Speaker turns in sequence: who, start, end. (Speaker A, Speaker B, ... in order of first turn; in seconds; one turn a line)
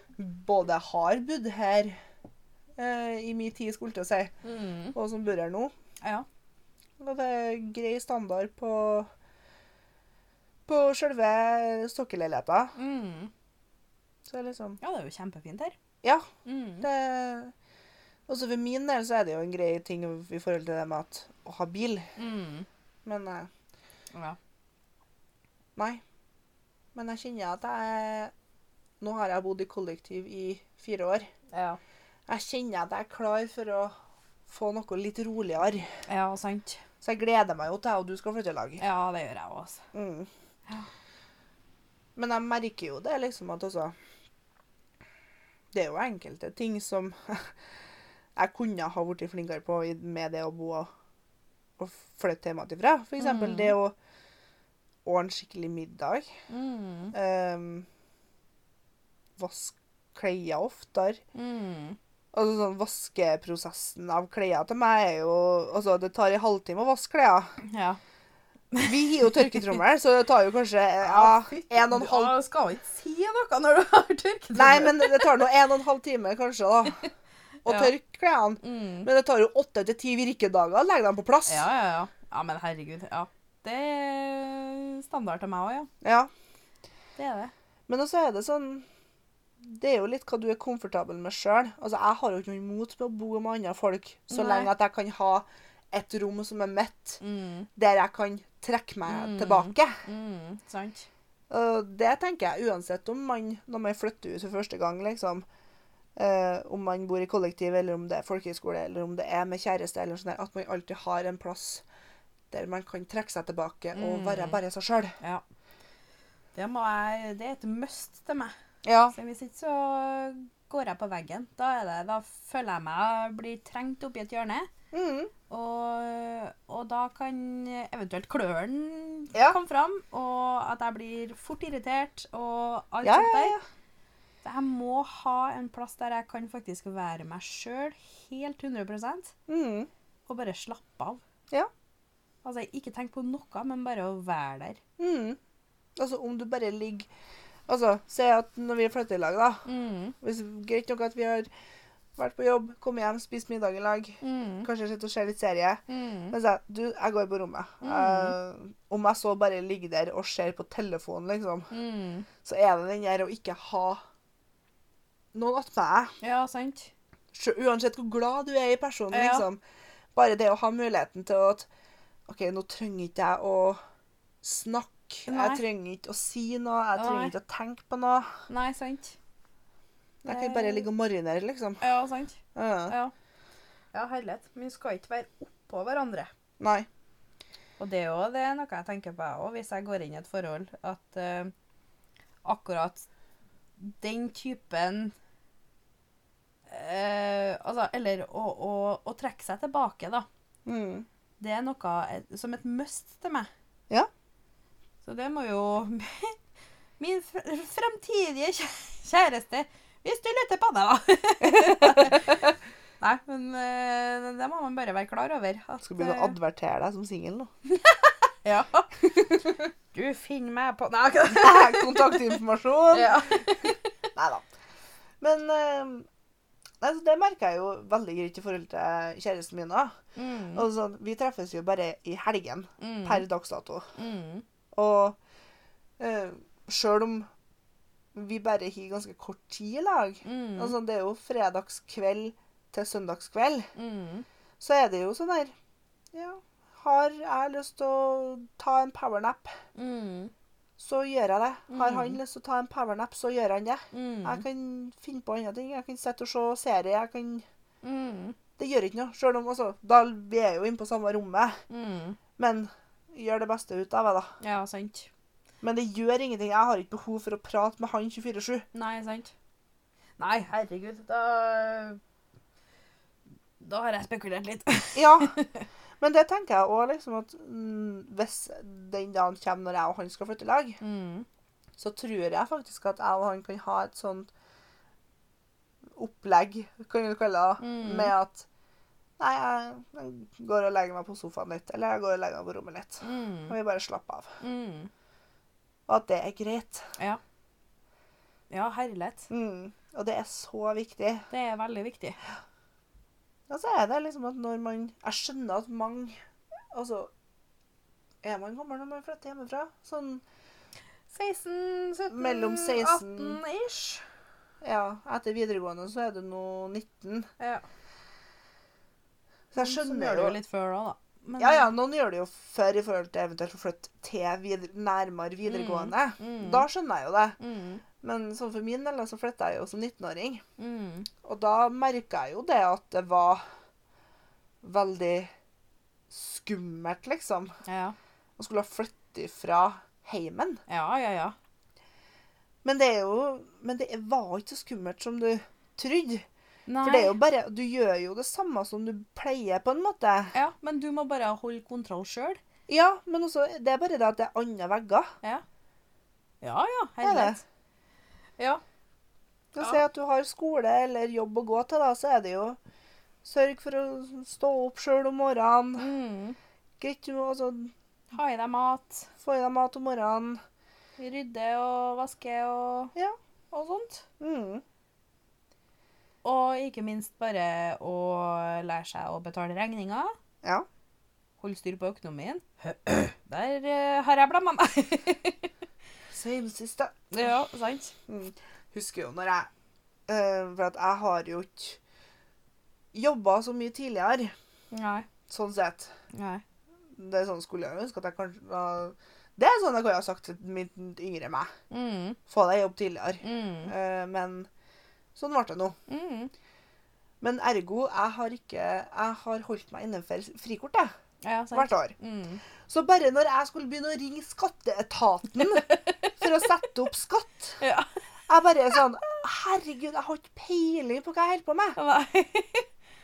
Speaker A: 0.2-2.0
Speaker A: 2.8-4.3
Speaker B: 4.4-4.9
Speaker A: 4.9-5.7
Speaker A: 7.0-9.1
Speaker A: 10.7-12.7
Speaker B: 12.8-13.3
Speaker A: 14.3-14.8
Speaker B: 14.8-15.8
Speaker B: 16.4-16.8
Speaker A: 16.8-17.5
Speaker A: 18.3-22.1
Speaker B: 22.1-22.7
Speaker A: 23.0-23.5
Speaker A: 25.8-26.0
Speaker A: 26.9-28.3
Speaker A: 29.0-31.3
Speaker B: 31.5-31.8
Speaker A: 32.3-33.9
Speaker A: 34.5-35.9
Speaker B: 36.1-36.8
Speaker A: 37.0-38.8
Speaker B: 38.8-39.8
Speaker A: 39.9-40.3
Speaker A: 42.1-43.9
Speaker A: 45.7-47.6
Speaker A: 48.4-50.9
Speaker A: 51.8-53.9
Speaker B: 53.2-53.7
Speaker A: 55.0-56.3
Speaker B: 56.5-57.1
Speaker A: 57.1-57.9
Speaker A: 59.4-61.2
Speaker B: 61.3-62.0
Speaker A: 62.3-67.5
Speaker B: 67.6-68.0
Speaker B: 68.7-69.8
Speaker A: 68.8-72.3
Speaker B: 71.0-75.3
Speaker A: 74.5-77.1
Speaker A: 77.6-81.7
Speaker B: 77.7-77.9
Speaker B: 78.6-79.1
Speaker B: 81.5-85.9
Speaker A: 86.0-86.3
Speaker B: 87.2-87.5
Speaker A: 87.9-88.8
Speaker A: 89.6-97.2
Speaker B: 94.3-94.7
Speaker B: 97.2-97.7
Speaker A: 97.8-100.0
Speaker B: 99.0-101.1
Speaker A: 101.5-105.5
Speaker A: 106.2-111.8
Speaker A: 112.5-115.2
Speaker B: 113.9-114.6
Speaker B: 116.5-118.5
Speaker A: 118.8-119.1
Speaker B: 119.1-124.7
Speaker A: 124.9-125.3
Speaker B: 125.5-133.5
Speaker A: 133.0-133.6
Speaker B: 134.4-139.3
Speaker A: 139.5-139.9
Speaker B: 140.3-141.2
Speaker B: 142.4-144.8
Speaker A: 145.0-145.4
Speaker A: 145.9-147.1
Speaker A: 147.7-149.6
Speaker B: 149.7-150.2
Speaker A: 150.2-151.5
Speaker A: 152.2-161.7
Speaker B: 154.2-154.7
Speaker B: 155.9-156.3
Speaker B: 157.8-158.3
Speaker B: 161.7-162.3
Speaker A: 162.4-164.0
Speaker A: 165.3-166.1
Speaker B: 166.2-166.9
Speaker A: 167.3-169.6
Speaker B: 169.1-169.4
Speaker A: 170.1-171.7
Speaker A: 172.3-173.8
Speaker A: 174.4-178.3
Speaker B: 175.3-175.6
Speaker B: 176.9-177.3
Speaker B: 178.5-179.2
Speaker A: 180.2-181.8
Speaker B: 180.3-180.9
Speaker B: 181.8-183.1
Speaker A: 182.5-182.9
Speaker B: 183.9-186.3
Speaker A: 186.6-186.9
Speaker B: 187.8-191.5
Speaker B: 192.4-193.1
Speaker B: 193.8-195.1
Speaker B: 196.7-200.3
Speaker A: 200.7-201.1
Speaker B: 201.4-203.5
Speaker B: 205.0-206.4
Speaker B: 207.0-212.4
Speaker A: 211.4-212.3
Speaker B: 213.0-216.3
Speaker A: 215.8-217.5
Speaker B: 217.7-222.4
Speaker A: 221.3-224.4
Speaker B: 222.9-223.8
Speaker A: 225.2-226.1
Speaker A: 226.8-229.9
Speaker B: 230.2-230.6
Speaker A: 230.5-233.9
Speaker B: 232.8-233.2
Speaker B: 234.0-234.4
Speaker A: 234.7-235.2
Speaker A: 236.0-237.3
Speaker A: 238.1-243.7
Speaker B: 240.2-240.7
Speaker B: 243.8-244.2
Speaker A: 244.6-245.5
Speaker A: 246.1-249.6
Speaker B: 249.7-250.3
Speaker A: 250.8-257.4
Speaker B: 251.7-252.2
Speaker B: 253.9-254.4
Speaker B: 257.8-258.4
Speaker A: 258.6-261.6
Speaker B: 261.7-262.2
Speaker A: 262.4-264.3
Speaker B: 264.4-265.1
Speaker A: 265.6-268.6
Speaker B: 268.7-269.3
Speaker B: 270.2-272.0
Speaker B: 273.6-275.6
Speaker A: 274.9-275.4
Speaker A: 276.0-280.8
Speaker B: 280.8-281.2
Speaker A: 281.8-284.3
Speaker A: 285.9-288.4
Speaker B: 287.6-288.1
Speaker A: 289.2-294.3
Speaker B: 293.0-293.5
Speaker B: 294.4-294.9
Speaker A: 295.9-296.9
Speaker B: 298.5-299.3
Speaker A: 299.3-301.2
Speaker B: 301.3-302.2
Speaker A: 303.5-306.1
Speaker A: 306.7-307.1
Speaker A: 308.2-310.2
Speaker B: 311.1-314.0
Speaker A: 312.1-313.4
Speaker A: 314.6-317.3
Speaker B: 317.4-317.6
Speaker A: 319.5-320.4
Speaker B: 319.6-321.7
Speaker A: 321.4-327.4
Speaker B: 325.4-326.6
Speaker B: 327.4-327.8
Speaker A: 328.0-330.4
Speaker B: 330.6-331.1
Speaker A: 331.2-333.4
Speaker A: 334.6-335.3
Speaker A: 336.1-337.6
Speaker B: 337.6-337.9
Speaker A: 338.4-340.6
Speaker B: 340.7-341.4
Speaker A: 342.6-346.2
Speaker B: 346.7-347.1
Speaker A: 346.8-350.3
Speaker B: 350.3-352.4
Speaker A: 352.7-355.1
Speaker B: 356.4-357.4
Speaker A: 357.0-357.4
Speaker A: 359.5-362.6
Speaker A: 363.2-365.9
Speaker B: 365.8-366.4
Speaker A: 366.8-367.7
Speaker B: 368.1-369.1
Speaker A: 369.2-370.4
Speaker B: 371.0-372.9
Speaker B: 373.5-374.0
Speaker A: 374.2-374.6
Speaker B: 376.2-380.1
Speaker B: 381.4-385.5
Speaker A: 386.1-387.4
Speaker B: 387.1-387.9
Speaker A: 388.1-389.5
Speaker A: 390.1-391.8
Speaker A: 392.9-394.3
Speaker B: 394.7-395.1
Speaker A: 395.3-395.9
Speaker B: 396.1-396.4
Speaker A: 396.9-401.5
Speaker B: 401.7-402.2
Speaker A: 402.3-404.5
Speaker B: 403.2-403.7
Speaker A: 405.1-405.8
Speaker B: 405.9-406.3
Speaker A: 407.2-410.9
Speaker B: 411.2-412.4
Speaker A: 411.5-411.9
Speaker A: 412.6-415.6
Speaker B: 415.4-416.2
Speaker A: 416.2-417.6
Speaker B: 417.6-417.9
Speaker A: 418.3-421.8
Speaker B: 421.8-422.6